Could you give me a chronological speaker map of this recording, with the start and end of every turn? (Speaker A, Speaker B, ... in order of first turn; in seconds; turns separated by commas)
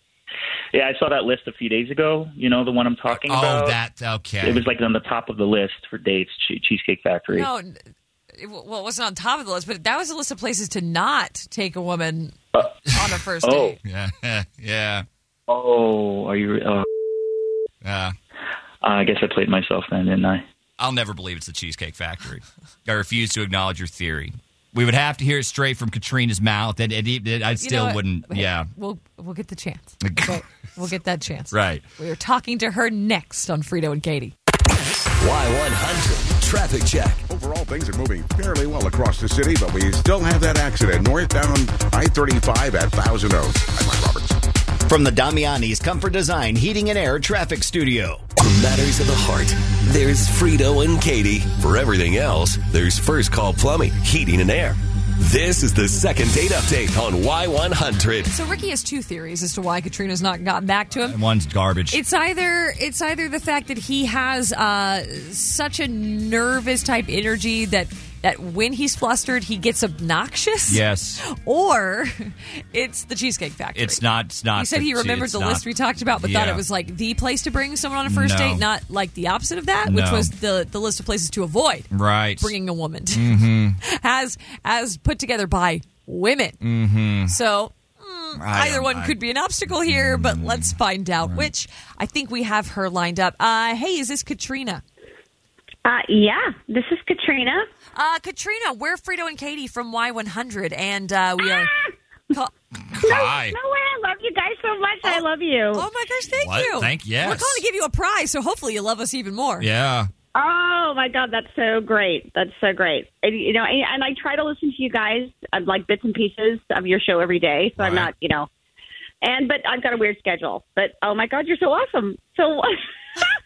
Speaker A: 0.7-3.8, Speaker B: 3.1-4.7, Speaker A: 4.4-7.5, Speaker C: 7.3-7.8, Speaker C: 8.3-13.8, Speaker A: 13.4-13.8, Speaker B: 13.8-15.0, Speaker A: 15.5-16.9, Speaker B: 17.8-18.1, Speaker A: 18.8-20.4, Speaker B: 20.8-28.7, Speaker C: 27.6-34.3, Speaker B: 30.0-30.4, Speaker B: 31.5-31.8, Speaker D: 35.2-37.2, Speaker E: 37.3-44.4, Speaker F: 44.9-48.2, Speaker D: 48.3-58.3, Speaker C: 58.2-61.2, Speaker B: 61.0-62.0, Speaker C: 61.9-86.6, Speaker B: 70.7-71.2, Speaker B: 73.7-75.7, Speaker B: 76.2-76.6, Speaker B: 78.0-78.6, Speaker B: 79.8-80.3, Speaker B: 81.9-82.5, Speaker B: 83.1-83.8, Speaker B: 86.6-87.3, Speaker C: 87.2-94.8, Speaker B: 88.4-89.2, Speaker B: 89.9-91.5, Speaker G: 95.8-97.7, Speaker C: 97.9-101.7, Speaker G: 101.4-101.9, Speaker B: 102.8-103.6, Speaker G: 103.0-105.9, Speaker C: 105.0-109.7, Speaker B: 106.4-107.6, Speaker B: 109.6-110.1, Speaker G: 110.3-118.5, Speaker B: 117.8-118.1, Speaker G: 119.2-122.7